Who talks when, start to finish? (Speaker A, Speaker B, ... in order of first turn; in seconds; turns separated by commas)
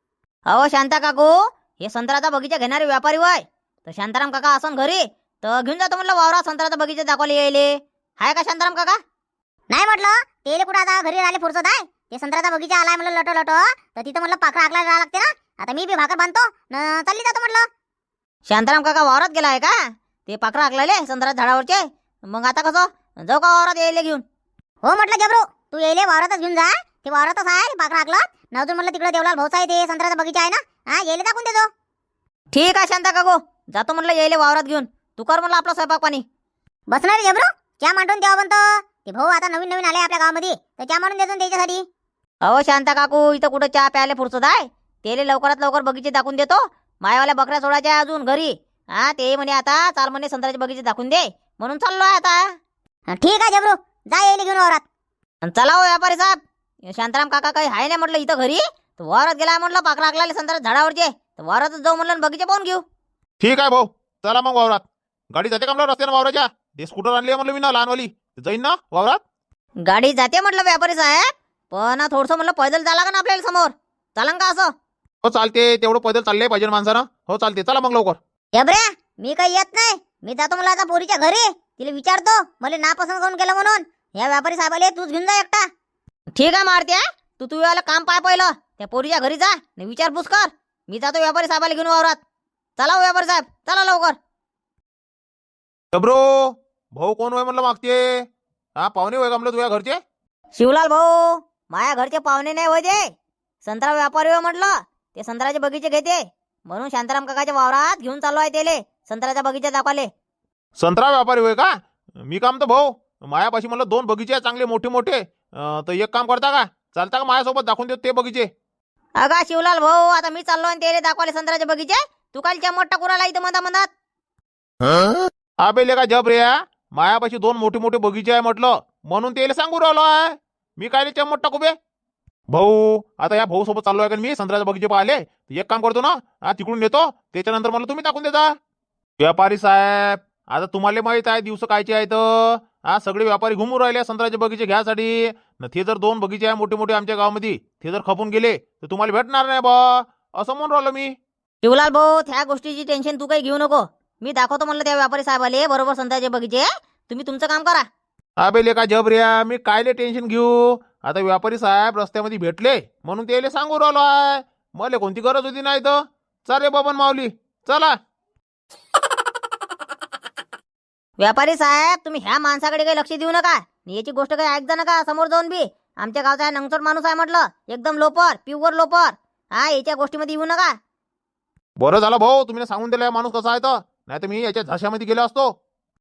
Speaker A: 0.5-9.0, Speaker B: 9.7-17.6, Speaker A: 18.5-19.7, Speaker A: 20.3-24.2, Speaker B: 24.8-31.7, Speaker A: 32.5-36.2, Speaker B: 36.9-41.8, Speaker A: 42.4-52.4, Speaker B: 53.1-54.8, Speaker A: 55.4-62.8, Speaker C: 63.4-69.2, Speaker A: 69.8-74.7, Speaker C: 75.2-78.2, Speaker B: 78.5-85.7, Speaker A: 86.3-92.2, Speaker A: 92.8-94.2, Speaker C: 95.9-98.2, Speaker C: 98.8-100.0, Speaker A: 100.5-103.0, Speaker A: 103.6-110.1, Speaker C: 110.8-111.7, Speaker C: 112.2-118.5, Speaker A: 119.2-123.9, Speaker C: 125.6-131.7, Speaker C: 132.5-138.5, Speaker C: 139.2-151.1, Speaker A: 151.6-157.8, Speaker C: 158.4-167.9, Speaker A: 171.2-180.7, Speaker C: 181.8-185.5